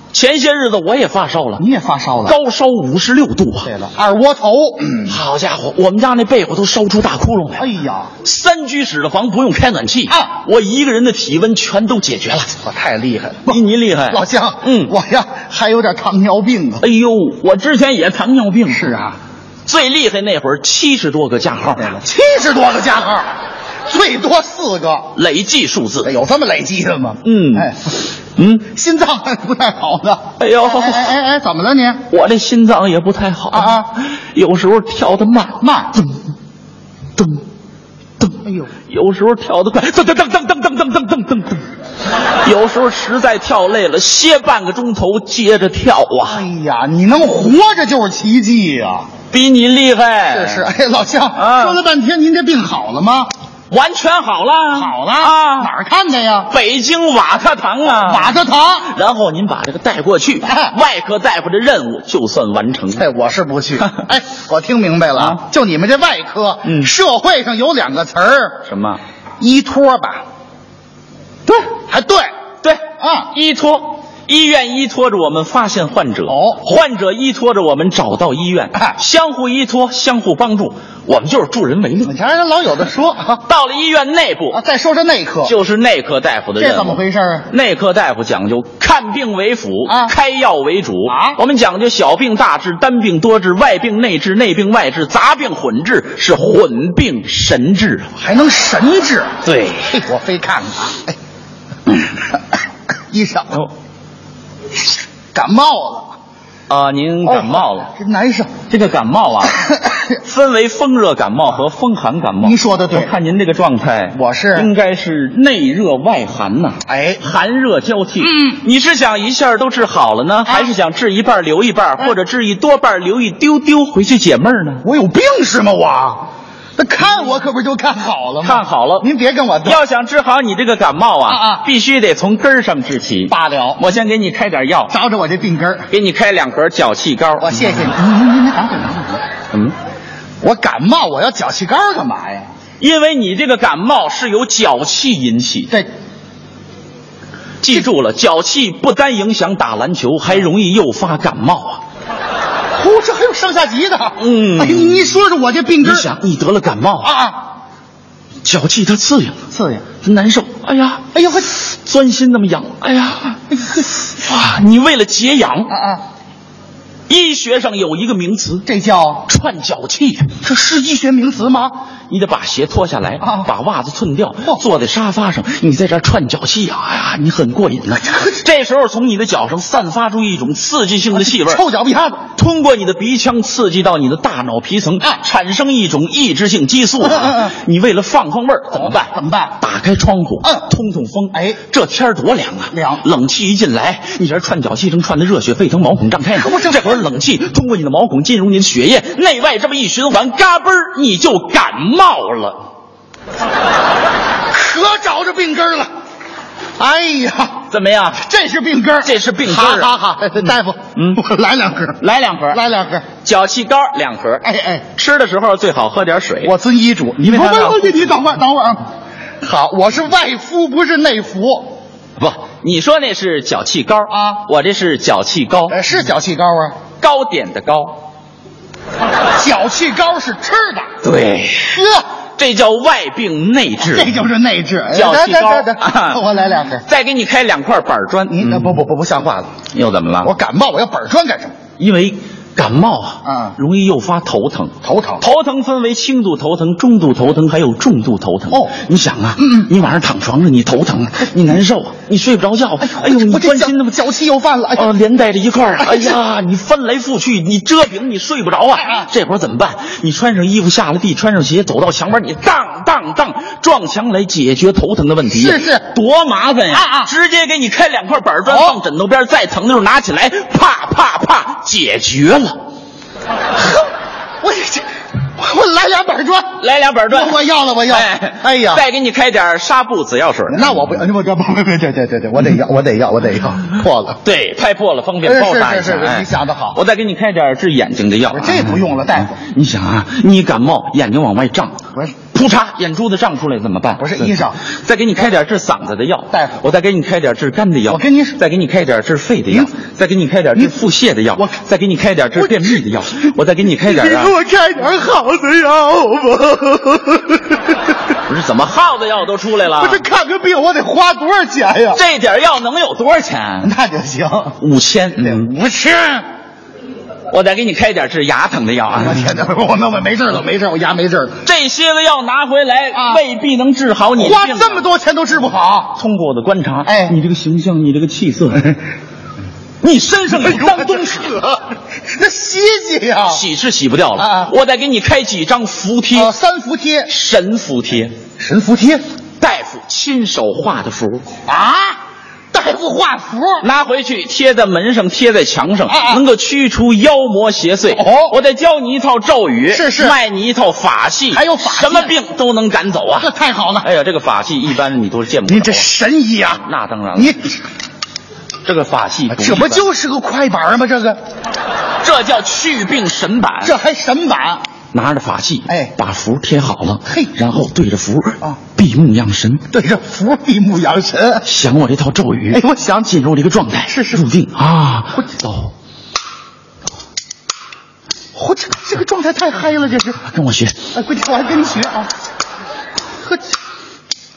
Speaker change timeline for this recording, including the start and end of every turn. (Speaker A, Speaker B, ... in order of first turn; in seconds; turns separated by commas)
Speaker A: 0.1-1.6, Speaker B: 1.6-2.4, Speaker A: 2.2-3.7, Speaker B: 3.6-5.2, Speaker A: 5.1-7.7, Speaker B: 7.6-8.1, Speaker A: 8.2-12.6, Speaker B: 12.6-16.9, Speaker A: 13.5-14.9, Speaker A: 16.8-18.9, Speaker B: 18.7-19.2, Speaker A: 19.6-22.0, Speaker B: 21.8-23.3, Speaker B: 23.9-25.1, Speaker A: 25.1-26.1, Speaker B: 26.0-27.9, Speaker A: 27.2-27.7, Speaker A: 28.4-28.6, Speaker B: 28.6-32.0, Speaker A: 30.4-31.1, Speaker A: 32.1-36.2, Speaker B: 33.5-33.9, Speaker B: 35.6-35.9, Speaker A: 37.1-37.4, Speaker A: 38.2-41.7, Speaker B: 38.4-38.7, Speaker A: 42.4-46.4, Speaker B: 46.2-49.1, Speaker A: 49.3-50.7, Speaker B: 50.3-53.3, Speaker A: 51.3-51.8, Speaker A: 53.7-55.7, Speaker B: 54.7-56.5, Speaker A: 56.5-63.1, Speaker B: 57.8-58.9, Speaker B: 60.4-60.8, Speaker B: 62.9-68.6, Speaker A: 65.1-65.4, Speaker A: 66.6-66.9, Speaker A: 68.6-69.0, Speaker B: 69.4-70.2, Speaker B: 71.9-72.3, Speaker A: 72.6-82.2, Speaker B: 73.0-73.3, Speaker B: 76.3-76.6, Speaker B: 82.0-83.4, Speaker A: 83.4-84.6, Speaker B: 84.5-85.5, Speaker A: 85.4-98.1, Speaker B: 86.6-87.5, Speaker B: 89.9-90.1, Speaker B: 91.0-91.4, Speaker B: 98.2-99.3, Speaker A: 99.4-100.0, Speaker B: 99.9-101.2, Speaker B: 103.1-103.6, Speaker B: 105.3-106.1, Speaker A: 106.7-107.9, Speaker B: 107.2-108.5, Speaker A: 108.6-109.6, Speaker B: 109.4-110.2, Speaker A: 110.2-124.9, Speaker B: 112.4-113.1, Speaker B: 114.1-114.7, Speaker B: 116.9-117.2, Speaker B: 118.2-118.6, Speaker B: 120.5-120.7, Speaker B: 124.8-126.2, Speaker B: 126.8-129.8, Speaker A: 128.4-129.1, Speaker A: 129.6-135.0, Speaker B: 131.2-131.7, Speaker B: 133.3-133.8, Speaker B: 134.9-135.9, Speaker A: 135.9-137.9, Speaker B: 137.4-139.2, Speaker B: 140.4-142.5, Speaker A: 142.8-145.8, Speaker A: 147.6-151.8, Speaker B: 152.7-156.1, Speaker A: 154.2-155.1, Speaker A: 155.8-157.1, Speaker B: 157.0-157.4, Speaker A: 158.4-159.4, Speaker B: 159.5-159.9, Speaker A: 159.9-163.4, Speaker B: 161.1-161.5, Speaker B: 163.5-163.9, Speaker A: 164.0-165.8, Speaker B: 165.7-166.0, Speaker A: 167.1-168.7, Speaker B: 168.7-169.2, Speaker A: 169.2-170.4, Speaker B: 170.4-171.8, Speaker A: 172.1-181.6, Speaker B: 173.2-173.5, Speaker B: 178.0-178.4, Speaker B: 181.1-182.2, Speaker A: 182.3-202.6, Speaker B: 187.0-187.5, Speaker B: 188.7-189.6, Speaker B: 191.3-191.6, Speaker B: 192.7-193.1, Speaker B: 196.3-197.1, Speaker B: 204.5-205.9, Speaker B: 206.8-212.0, Speaker A: 207.7-208.2, Speaker A: 209.0-209.9, Speaker A: 210.5-211.2, Speaker A: 212.0-212.6, Speaker B: 212.5-213.0, Speaker A: 213.2-216.5, Speaker B: 214.4-214.8, Speaker B: 216.4-218.8, Speaker A: 217.2-218.0, Speaker B: 219.4-221.8, Speaker A: 222.2-225.8, Speaker B: 224.1-224.4, Speaker B: 225.7-226.8, Speaker A: 227.0-228.0, Speaker B: 229.4-230.9, Speaker A: 231.0-231.8, Speaker B: 231.7-232.1, Speaker A: 232.4-234.2, Speaker B: 233.8-236.8, Speaker A: 234.9-236.2, Speaker A: 236.8-238.9, Speaker B: 238.3-239.5, Speaker A: 239.7-240.3, Speaker B: 240.2-241.5, Speaker A: 241.8-253.8, Speaker B: 243.2-243.6, Speaker B: 244.8-245.2, Speaker B: 249.4-249.7, Speaker B: 252.8-254.9, Speaker A: 254.8-272.6, Speaker B: 255.8-256.2, Speaker B: 258.8-259.1, Speaker B: 265.3-265.9, Speaker B: 266.7-267.1, Speaker B: 268.5-268.8, Speaker B: 274.4-274.9, Speaker B: 275.4-276.6, Speaker A: 276.6-281.0, Speaker B: 277.1-278.9, Speaker B: 280.5-284.2, Speaker A: 284.2-291.8, Speaker B: 285.2-286.8, Speaker B: 288.3-289.3, Speaker A: 292.3-304.4, Speaker B: 294.0-294.6, Speaker B: 296.3-296.6, Speaker B: 297.9-298.4, Speaker B: 302.4-302.8, Speaker B: 303.8-307.8, Speaker A: 308.2-310.0, Speaker B: 309.8-312.0, Speaker A: 311.9-313.7, Speaker B: 313.6-314.6, Speaker A: 314.6-315.5, Speaker B: 315.2-316.2, Speaker A: 317.3-319.3, Speaker B: 318.9-321.4, Speaker A: 321.4-324.9, Speaker B: 322.9-323.2, Speaker B: 324.1-326.0, Speaker A: 325.9-328.8, Speaker B: 326.9-327.2, Speaker A: 329.8-331.5, Speaker B: 330.4-333.4, Speaker A: 333.3-336.3, Speaker B: 334.2-334.5, Speaker B: 336.1-337.1, Speaker A: 337.1-338.1, Speaker B: 338.4-339.0, Speaker A: 339.4-341.3, Speaker B: 341.5-342.0, Speaker B: 342.5-343.7, Speaker A: 343.6-355.9, Speaker B: 345.9-346.2, Speaker B: 347.9-348.4, Speaker B: 349.7-350.2, Speaker B: 351.3-352.1, Speaker B: 353.2-353.9, Speaker B: 355.5-356.6, Speaker A: 356.5-357.4, Speaker B: 357.1-357.6, Speaker A: 358.6-359.9, Speaker B: 359.3-361.2, Speaker A: 362.0-363.8, Speaker B: 363.6-364.6, Speaker A: 364.9-369.7, Speaker B: 365.6-365.9, Speaker B: 367.1-367.3, Speaker B: 369.7-371.5, Speaker A: 371.4-375.7, Speaker B: 372.5-373.2, Speaker B: 373.9-374.3, Speaker B: 378.4-380.2, Speaker A: 380.2-380.9, Speaker B: 380.9-382.1